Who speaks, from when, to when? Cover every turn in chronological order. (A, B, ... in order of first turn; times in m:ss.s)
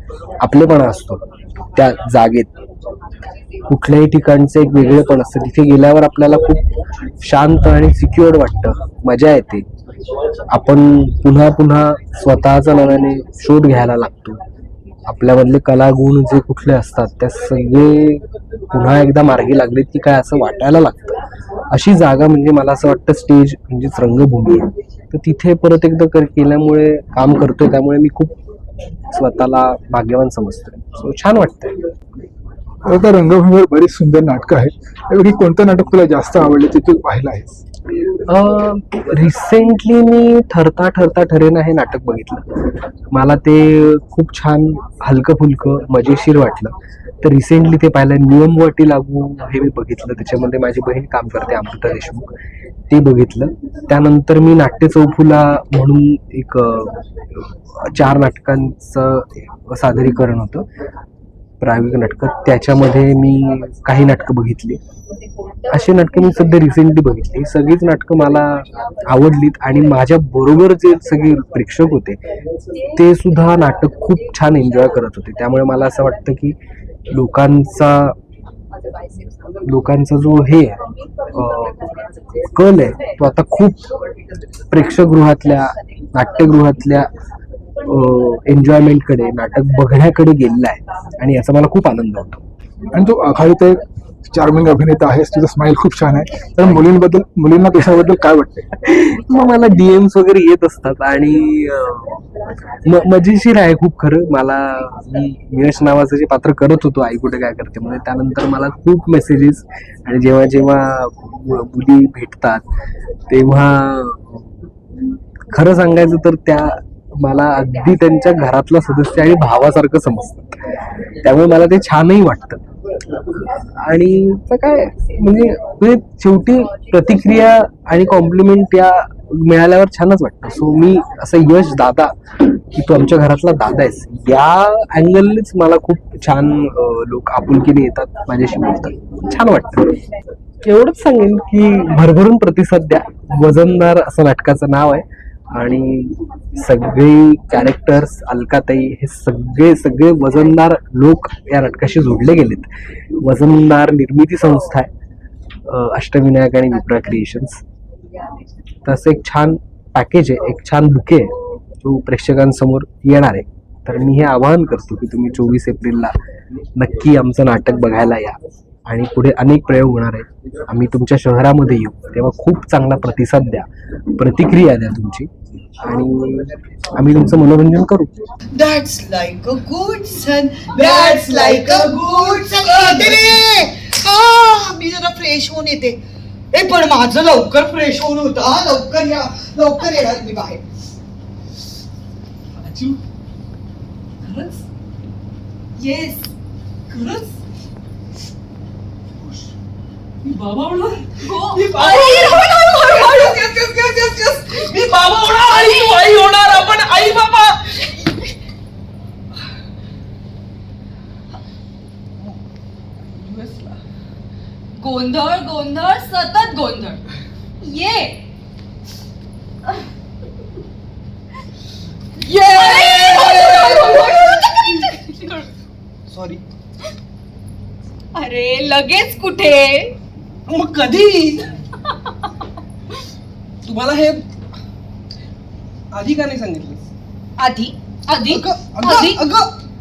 0:00.4-0:01.2 A
0:01.7-0:02.6 A
0:03.7-0:06.6 A
0:07.2-0:09.6 A
0:10.5-0:14.4 A
0:15.1-0:21.2 A
0:21.7-0:28.3 A
0:29.1-0:31.8 A
0:32.8-0:37.6 B
0:38.3-0:42.5 A
0:43.1-0:52.3 A
0:52.9-1:00.6 A
1:01.6-1:04.8 A
1:05.7-1:12.2 A
1:12.9-1:16.6 A
1:17.1-1:18.2 A
1:19.6-1:20.8 A
1:21.3-1:21.8 A
1:22.5-1:23.9 A
1:24.7-1:27.1 A
1:27.8-1:32.4 A
1:32.9-1:38.6 B
1:37.8-1:38.1 A
1:38.8-1:42.2 A
1:42.8-1:52.6 A
1:53.3-1:54.5 A
1:55.5-2:00.7 A
2:01.2-2:02.6 A
2:03.3-2:20.0 A
2:20.6-2:34.9 A
2:35.6-2:37.6 A
2:38.8-2:46.2 A
2:46.7-2:58.1 A
2:58.5-3:06.0 C
3:00.8-3:03.5 D
3:06.5-3:10.6 C
3:12.7-3:13.0 D
3:14.2-3:14.5 D
3:15.8-3:16.3 E
3:20.2-3:27.7 D
3:21.1-3:23.7 E
3:24.4-3:26.2 E
3:26.9-3:27.2 E
3:33.1-3:33.8 D
3:34.7-3:37.0 E
3:37.6-3:38.2 E
3:42.2-3:44.8 D
3:42.2-3:45.5 E
3:46.1-3:46.4 D
3:48.1-3:49.9 E
3:50.5-3:51.5 D
3:53.6-3:54.2 D
3:55.9-3:56.8 D
3:57.4-3:59.2 E
3:58.4-3:59.5 D
3:58.8-3:59.3 C